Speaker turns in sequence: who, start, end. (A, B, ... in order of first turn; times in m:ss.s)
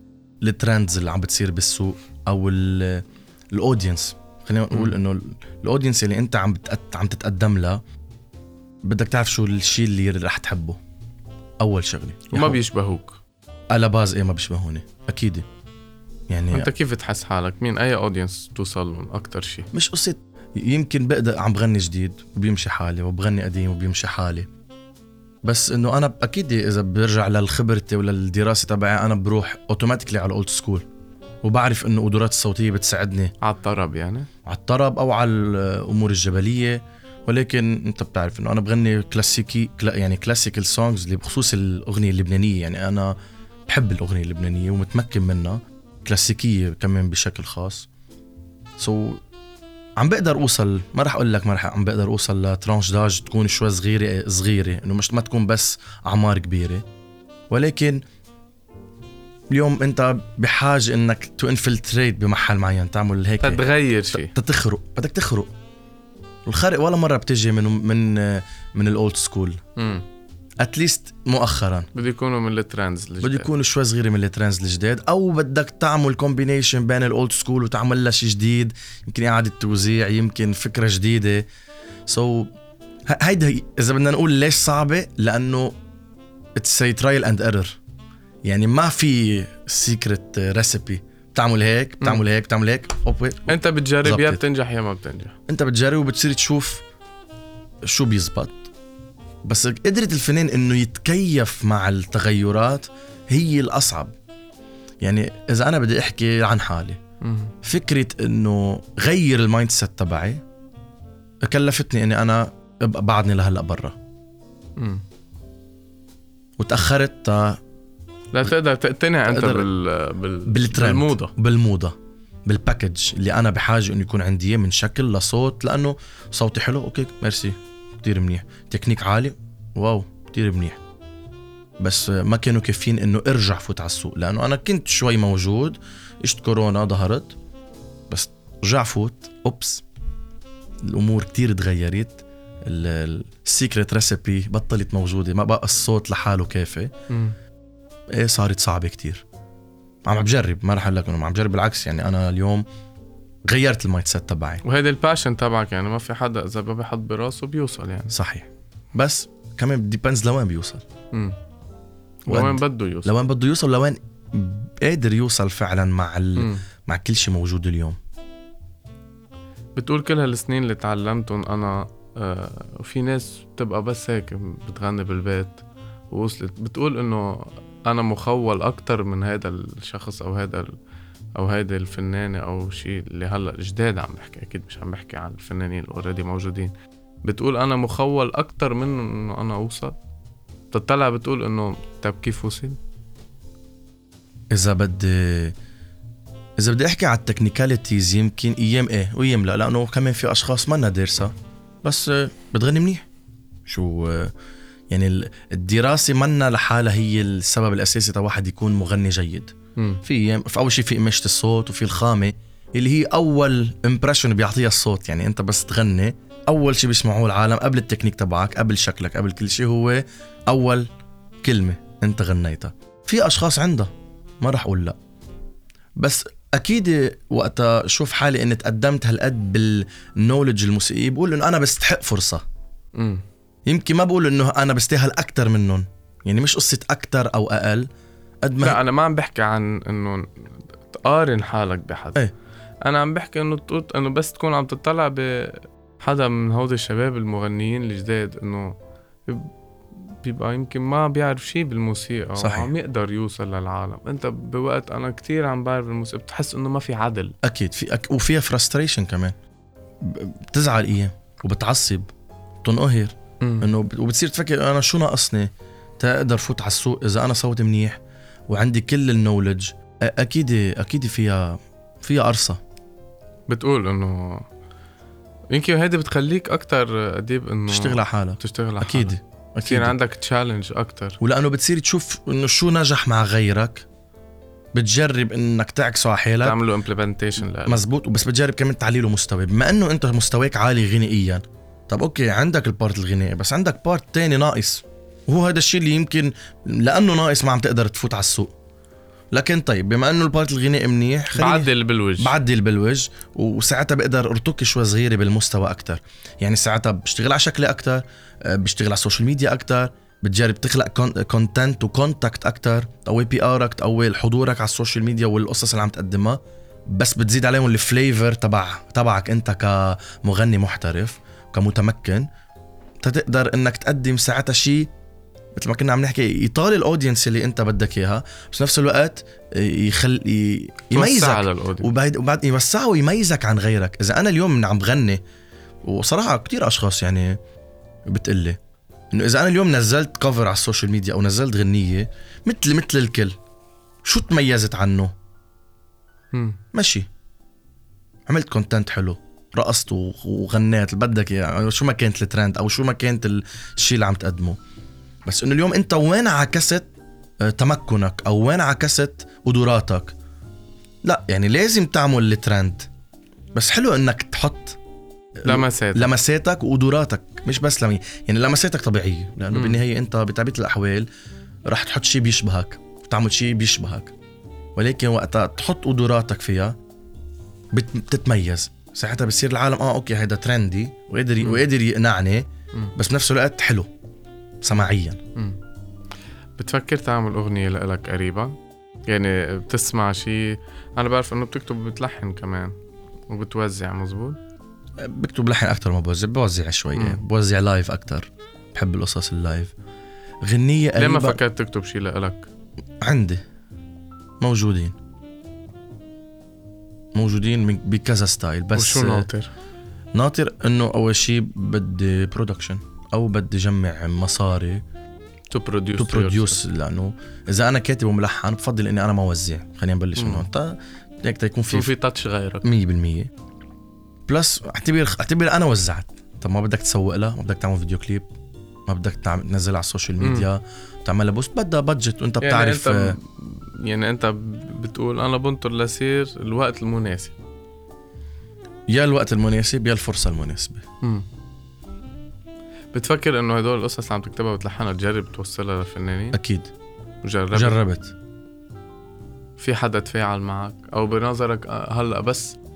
0:00.4-0:07.8 A
0:08.8-0:10.8 A
0:11.6-0:12.6 A
0:12.3-0:13.2 B
0:13.7-0:15.5 A
0:16.3-0:16.7 A
0:16.5-0:19.7 B
0:19.7-0:24.5 A
0:25.4-0:30.9 A
0:31.4-0:33.3 A
0:33.4-0:34.3 B
0:34.4-0:43.2 A
0:43.7-0:47.9 A
0:48.8-0:49.2 A
0:50.0-0:56.8 A
0:57.5-0:58.0 A
0:59.5-1:05.5 A
1:03.4-1:04.3 B
1:06.5-1:09.6 A
1:09.8-1:10.0 B
1:10.6-1:11.9 A
1:11.9-1:13.5 B
1:13.2-1:21.5 A
1:22.1-1:22.5 A
1:23.1-1:25.8 A
1:26.6-1:27.8 A
1:28.4-1:34.4 A
1:33.5-1:35.4 B
1:35.5-1:36.8 A
1:37.9-1:38.7 A
1:39.4-1:44.2 A
1:45.0-1:47.0 A
1:47.2-1:47.5 B
1:47.6-1:50.4 A
1:51.4-1:54.0 A
1:54.8-1:55.0 B
1:56.6-1:57.6 A
1:58.3-2:01.3 B
1:59.3-1:59.7 A
2:00.5-2:10.8 A
2:11.8-2:17.4 A
2:18.1-2:19.8 A
2:20.8-2:26.9 A
2:27.1-2:27.4 B
2:28.1-2:29.2 A
2:30.1-2:32.6 A
2:33.4-2:34.6 A
2:34.6-2:38.1 B
2:38.1-2:40.8 A
2:41.1-2:41.4 B
2:42.2-2:43.1 B
2:42.3-2:48.0 A
2:46.4-2:46.6 B
2:49.8-3:00.7 B
3:01.4-3:06.7 B
3:07.2-3:10.0 B
3:10.7-3:12.8 B
3:14.5-3:15.6 A
3:16.6-3:23.1 A
3:23.7-3:24.3 A
3:24.9-3:40.9 A
3:41.4-3:45.0 A
3:46.0-3:52.4 A
3:53.0-3:53.2 B
3:53.7-3:57.9 A
3:58.4-3:58.8 A
3:58.6-4:02.2 B
4:02.8-4:08.8 B
4:09.3-4:09.5 B
4:10.1-4:17.4 B
4:12.4-4:12.7 A
4:17.4-4:19.4 A
4:20.0-4:22.1 A
4:22.6-4:32.6 A
4:23.4-4:23.7 B
4:33.5-4:34.5 B
4:35.5-4:41.2 B
4:37.7-4:40.0 A
4:41.2-4:43.9 A
4:44.7-4:46.6 A
4:46.4-4:47.8 B
4:47.6-4:58.5 A
4:59.3-5:22.3 A
5:01.3-5:02.3 B
5:23.0-5:24.9 A
5:25.6-5:35.2 A
5:30.9-5:31.9 B
5:35.8-5:37.4 A
5:38.1-5:38.6 A
5:39.1-5:43.4 A
5:44.0-5:45.1 A
5:46.3-5:46.6 B
5:46.7-5:47.1 A
5:48.3-5:54.6 A
5:55.2-5:56.9 A
5:57.4-6:00.2 A
6:01.0-6:02.9 A
6:03.5-6:04.8 A
6:05.4-6:11.1 A
6:05.4-6:06.1 B
6:09.5-6:09.8 B
6:11.7-6:14.1 A
6:14.8-6:16.8 A
6:17.7-6:22.4 A
6:23.0-6:23.9 A
6:24.6-6:25.2 A
6:26.6-6:28.6 B
6:29.1-6:32.7 B
6:33.3-6:34.4 B
6:35.0-6:39.7 A
6:37.0-6:37.2 B
6:40.4-6:41.4 A
6:41.0-6:42.5 B
6:43.0-6:43.4 A
6:44.4-6:45.0 A
6:47.1-6:49.3 A
6:48.7-6:49.5 B
6:50.1-6:54.8 A
6:55.5-6:56.6 B
6:56.0-7:01.9 A
7:00.2-7:00.5 B
7:01.7-7:02.7 B
7:02.6-7:03.3 A
7:04.3-7:08.3 A
7:08.9-7:13.2 A
7:10.2-7:10.5 B
7:12.4-7:17.4 B
7:18.9-7:20.8 A
7:22.9-7:26.4 B
7:26.3-7:26.7 A
7:27.2-7:27.8 B
7:27.5-7:28.1 A
7:29.6-7:32.6 B